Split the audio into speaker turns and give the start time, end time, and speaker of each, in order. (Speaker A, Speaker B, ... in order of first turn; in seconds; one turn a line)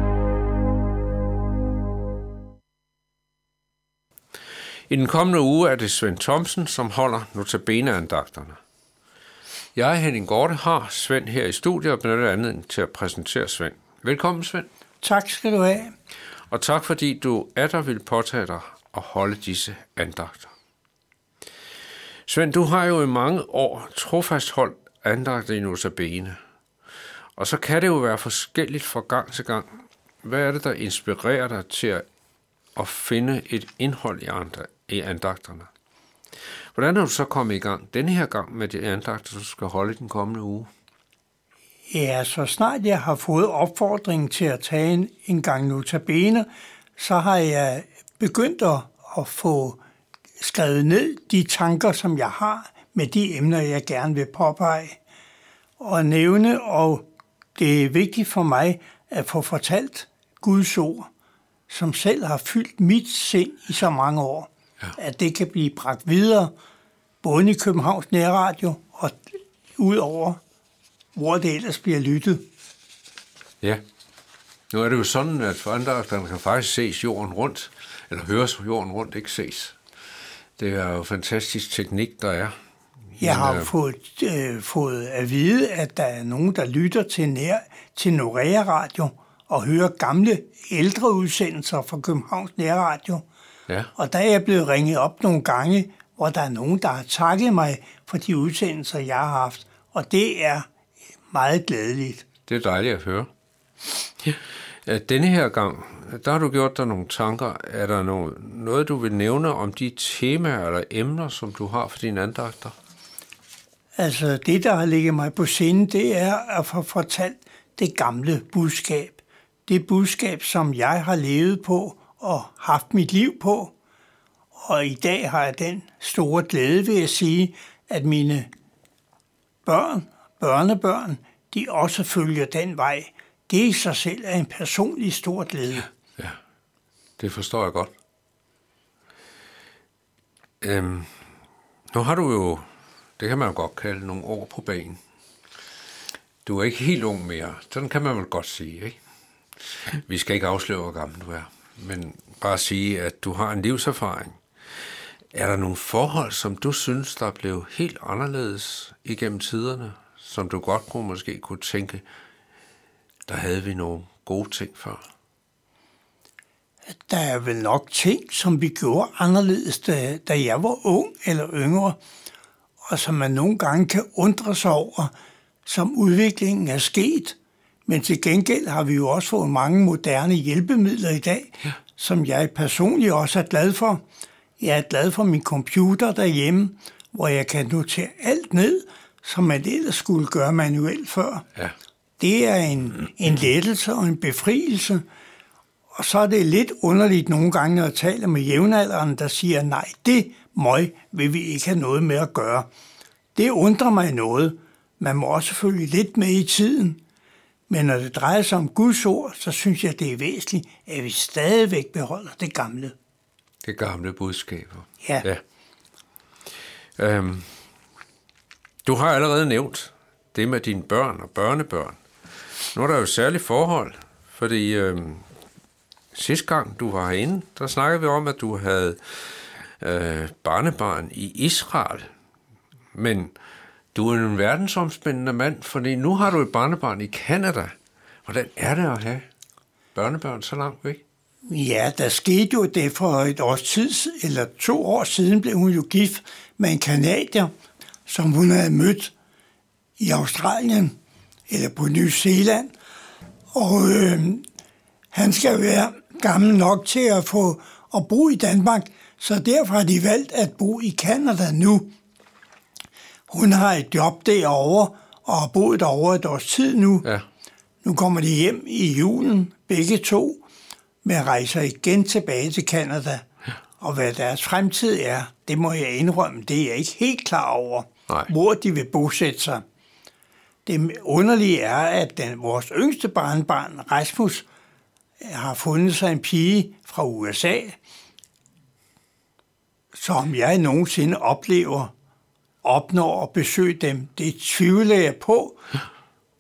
Speaker A: 4.9-8.6
Speaker A: 9.8-14.7
Speaker B: 15.0-15.9
Speaker A: 16.5-20.5
Speaker A: 22.3-26.4
Speaker A: 27.4-29.7
Speaker A: 30.2-32.0
Speaker A: 32.8-35.7
Speaker A: 36.8-40.7
Speaker B: 41.9-49.8
Speaker B: 50.4-55.0
Speaker B: 55.8-61.1
Speaker B: 61.7-66.5
Speaker B: 67.2-69.2
Speaker B: 69.8-70.4
Speaker B: 71.2-72.4
Speaker A: 74.7-79.8
Speaker A: 80.6-82.5
Speaker A: 83.2-83.7
Speaker B: 83.2-93.3
Speaker B: 94.0-100.7
Speaker B: 101.3-102.2
Speaker A: 102.5-103.3
Speaker A: 104.2-112.7
Speaker B: 114.0-123.7
Speaker B: 124.5-128.5
Speaker B: 129.7-135.9
Speaker A: 137.2-137.9
Speaker A: 140.6-141.1
Speaker A: 141.9-142.7
Speaker A: 143.2-145.0
Speaker A: 146.4-149.0
Speaker A: 150.1-154.4
Speaker A: 155.3-162.0
Speaker A: 163.3-165.0
Speaker B: 167.0-172.0
Speaker B: 172.9-175.1
Speaker B: 175.7-184.0
Speaker B: 184.6-191.4
Speaker B: 192.2-195.1
Speaker B: 195.9-202.7
Speaker B: 203.3-207.0
Speaker B: 207.7-212.9
Speaker A: 213.6-215.4
Speaker B: 215.0-215.3
Speaker A: 217.0-217.5
Speaker A: 218.8-222.0
Speaker A: 222.7-225.2
Speaker A: 226.1-232.1
Speaker A: 232.9-233.3
Speaker A: 233.9-237.7
Speaker A: 238.3-239.2
Speaker A: 239.9-241.0
Speaker B: 241.5-247.5
Speaker B: 248.1-249.1
Speaker B: 250.0-251.0
Speaker B: 251.5-252.7
Speaker B: 253.5-254.4
Speaker B: 255.1-261.9
Speaker B: 263.3-267.1
Speaker B: 267.8-270.4
Speaker B: 271.0-273.2
Speaker B: 273.8-279.6
Speaker B: 280.7-284.5
Speaker B: 285.2-287.8
Speaker B: 289.9-291.9
Speaker B: 292.6-295.6